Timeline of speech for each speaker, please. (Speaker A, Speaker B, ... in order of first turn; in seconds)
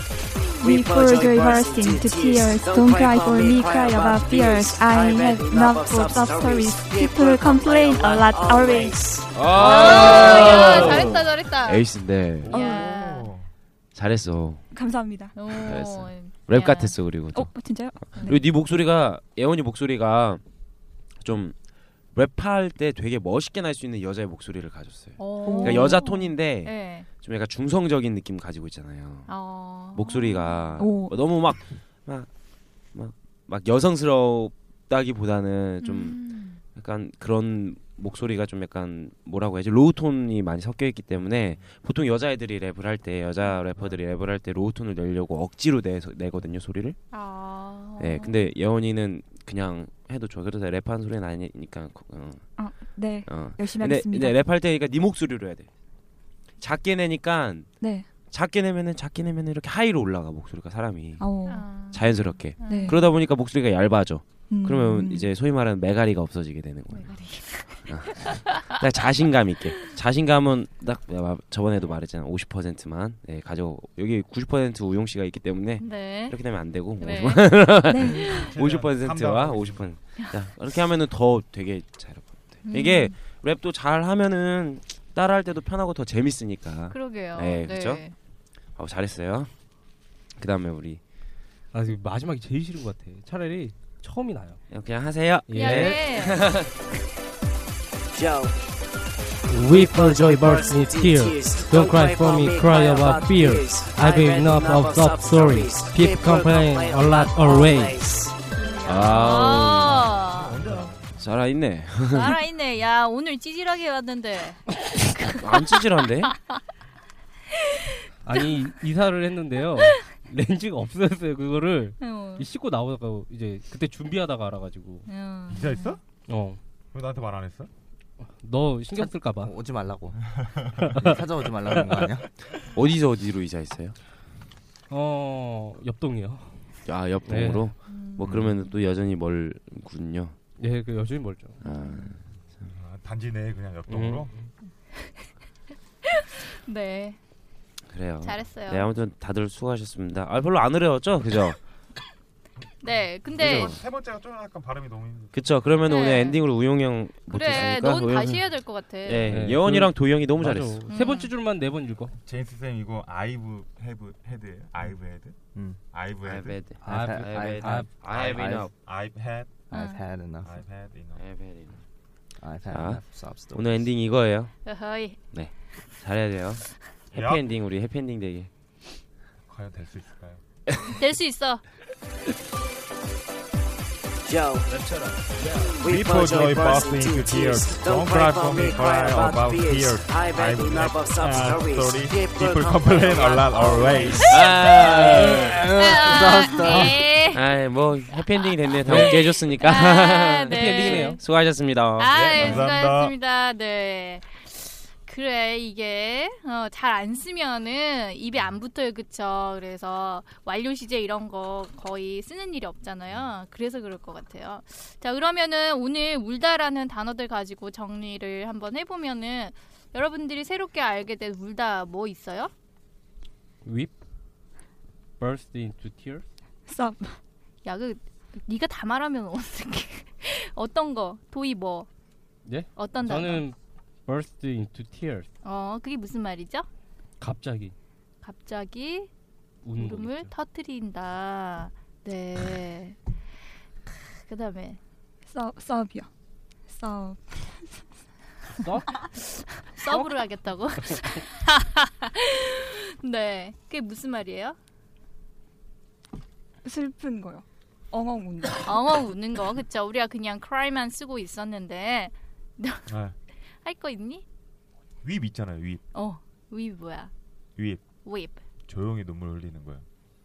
Speaker A: 0.6-11.1, 98.1-98.5, 99.7-108.3, 184.3-184.7, 185.8-194.6
Speaker B: 0.7-9.0, 12.6-12.8, 14.7-15.7, 17.3-18.4, 25.4-26.0, 30.8-31.2, 52.6-54.5, 57.8-58.1, 61.2-61.7, 62.7-63.0, 64.5-65.3, 77.9-78.3, 108.5-109.3, 226.7-227.2, 245.3-246.1, 246.7-247.7, 249.9-250.2, 256.6-258.8
Speaker C: 9.3-12.6, 13.9-14.6, 15.6-20.4, 21.2-21.6, 22.1-29.4, 29.9-32.3, 32.9-47.0, 48.0-55.7, 56.6-57.7, 58.3-61.2, 61.9-67.1, 67.9-88.0, 88.8-89.5, 90.4-91.0, 94.7-96.7, 108.8-110.1, 111.2-112.4, 115.4-116.3, 132.7-134.0, 136.9-140.4, 141.6-142.2, 147.9-151.6, 153.4-153.8, 155.3-160.8, 166.2-168.7, 171.2-171.8, 172.7-174.5, 175.3-178.5, 184.7-185.7, 194.1-195.6, 197.3-202.7
Speaker D: 9.5-11.9, 12.5-13.3, 15.3-17.0, 25.2-27.1, 29.3-30.9, 35.8-36.6, 47.1-48.3, 61.5-63.1, 66.9-68.6, 75.8-78.5, 82.7-83.2, 86.9-88.1, 95.6-96.4, 108.9-110.6, 112.1-115.7, 117.7-118.5, 122.0-122.5, 125.1-126.0, 137.9-138.4, 141.6-142.2, 145.0-145.3, 146.2-147.2, 148.2-148.9, 152.8-153.8, 155.9-156.4, 157.3-159.3, 160.9-161.3, 169.7-170.0, 174.7-175.2, 180.9-181.6, 195.8-197.4, 198.9-201.2, 202.0-222.5, 227.7-231.9, 232.8-233.4, 235.4-236.7, 238.2-239.1, 239.7-243.0, 243.9-244.8, 249.2-254.6, 258.6-262.9, 263.6-264.2, 265.9-267.1, 268.0-268.4
Speaker E: 12.4-13.5, 78.3-79.9, 109.7-111.1, 125.5-126.0, 126.9-127.7, 130.3-130.7, 142.6-144.4, 152.8-155.9, 162.3-165.4, 165.9-166.7, 168.0-169.6, 170.4-171.2, 177.1-177.5, 179.5-180.4, 185.8-194.8, 202.1-203.1, 262.9-263.1, 265.0-265.8, 267.6-267.8, 268.7-269.9
Speaker F: 91.7-94.6, 95.5-96.1, 99.5-108.0, 110.6-110.9, 118.2-125.1, 126.3-126.6, 128.2-129.5, 130.9-131.2, 131.7-132.1, 134.9-137.7, 140.6-141.6, 143.9-144.3, 159.3-162.2, 166.8-168.0, 198.8-199.2, 200.5-201.2, 223.6-223.9, 225.2-226.2, 232.5-233.6, 234.1-235.3, 237.2-237.7, 239.6-240.3, 248.5-248.9
Speaker G: 129.0-130.2, 131.0-132.3, 138.3-138.6, 166.8-168.7, 169.7-170.6, 172.4-173.9, 194.7-197.0